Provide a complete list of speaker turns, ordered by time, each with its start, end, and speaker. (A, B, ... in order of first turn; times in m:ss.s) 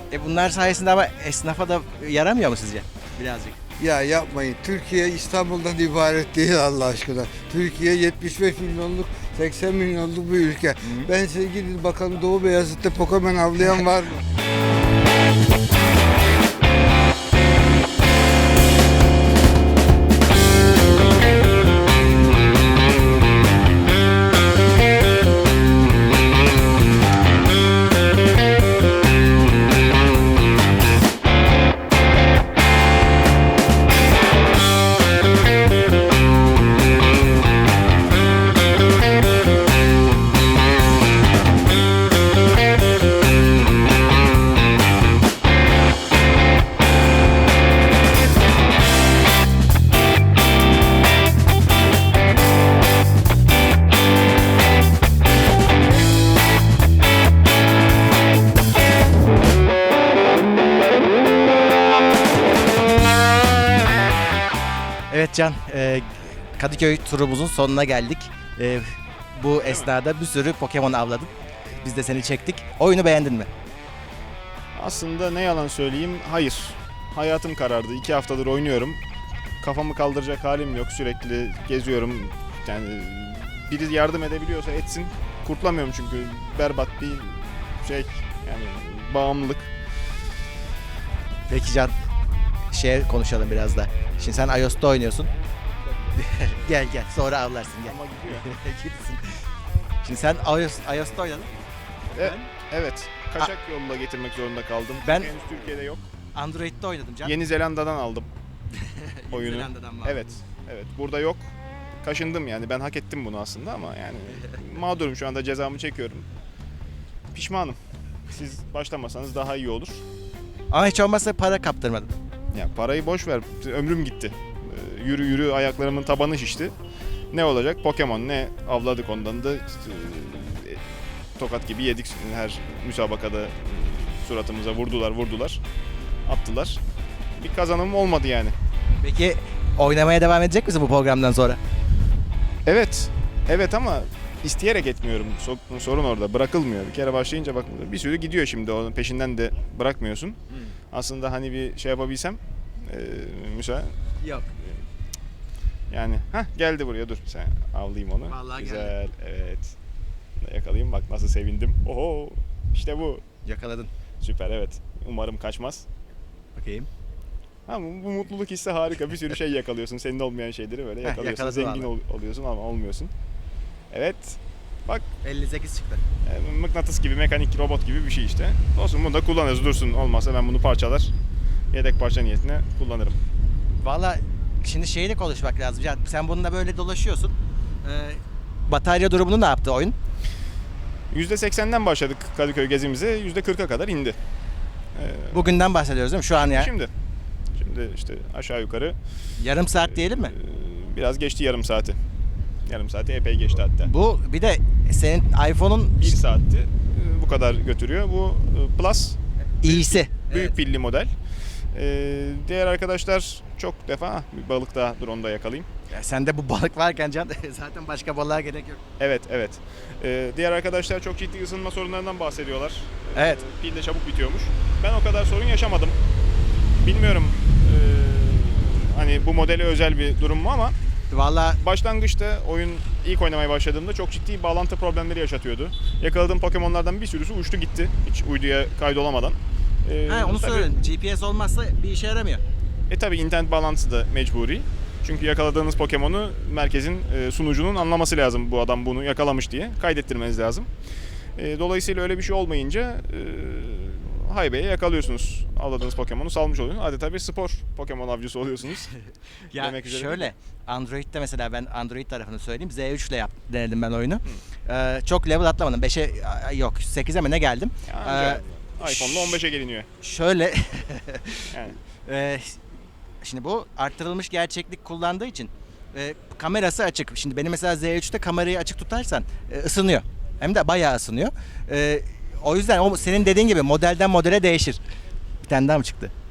0:00.1-0:03.6 A
0:03.8-0:14.2 B
0:10.8-0:11.1 A
1:05.1-1:13.5 A
1:09.6-1:09.9 C
1:14.8-1:19.0 C
1:19.6-1:29.7 C
1:31.5-1:32.0 A
1:32.7-1:35.3 A
1:36.1-1:39.5 A
1:37.8-1:38.5 C
1:40.0-1:41.6 A
1:42.1-1:46.0 C
1:42.1-1:42.5 A
1:45.0-1:45.3 A
1:46.3-1:47.3 A
1:47.2-1:48.3 C
1:48.7-1:50.2 A
1:49.3-1:51.4 C
1:52.0-1:56.2 C
1:57.3-1:57.8 C
1:58.3-2:00.0 C
2:00.7-2:02.1 A
2:02.5-2:06.7 C
2:07.3-2:10.8 C
2:11.4-2:15.6 C
2:16.2-2:16.8 C
2:17.4-2:18.5 C
2:19.0-2:21.6 A
2:22.7-2:30.4 C
2:30.9-2:34.0 C
2:34.2-2:34.5 A
2:35.9-2:39.8 C
2:38.3-2:38.9 A
2:40.4-2:43.2 C
2:43.4-2:43.9 A
2:44.2-2:45.8 C
2:46.6-2:46.9 A
2:47.7-2:53.1 C
2:51.0-2:51.9 A
2:53.9-2:55.0 C
2:55.2-2:56.0 A
2:56.2-3:01.1 C
3:01.7-3:03.2 C
3:03.8-3:07.3 A
3:07.8-3:10.0 A
3:11.1-3:14.2 C
3:15.0-3:15.6 C
3:15.3-3:16.7 A
3:16.4-3:16.9 C
3:17.6-3:19.0 C
3:19.4-3:20.3 A
3:19.8-3:22.0 C
3:22.7-3:23.9 C
3:23.8-3:26.2 A
3:26.0-3:31.1 C
3:29.6-3:30.6 A
3:31.7-3:35.7 C
3:35.9-3:38.8 A
3:39.0-3:46.0 C
3:43.1-3:43.4 A
3:46.7-3:50.8 C
3:51.1-3:51.6 A
3:51.6-4:00.8 C
4:00.1-4:02.4 A
4:02.9-4:10.7 C
4:11.4-4:18.9 C
4:19.5-4:29.4 A
4:19.5-4:20.3 C
4:27.9-4:29.9 C
4:30.0-4:32.6 A
4:31.5-4:31.8 C
4:33.2-4:44.8 A
4:45.4-4:46.1 A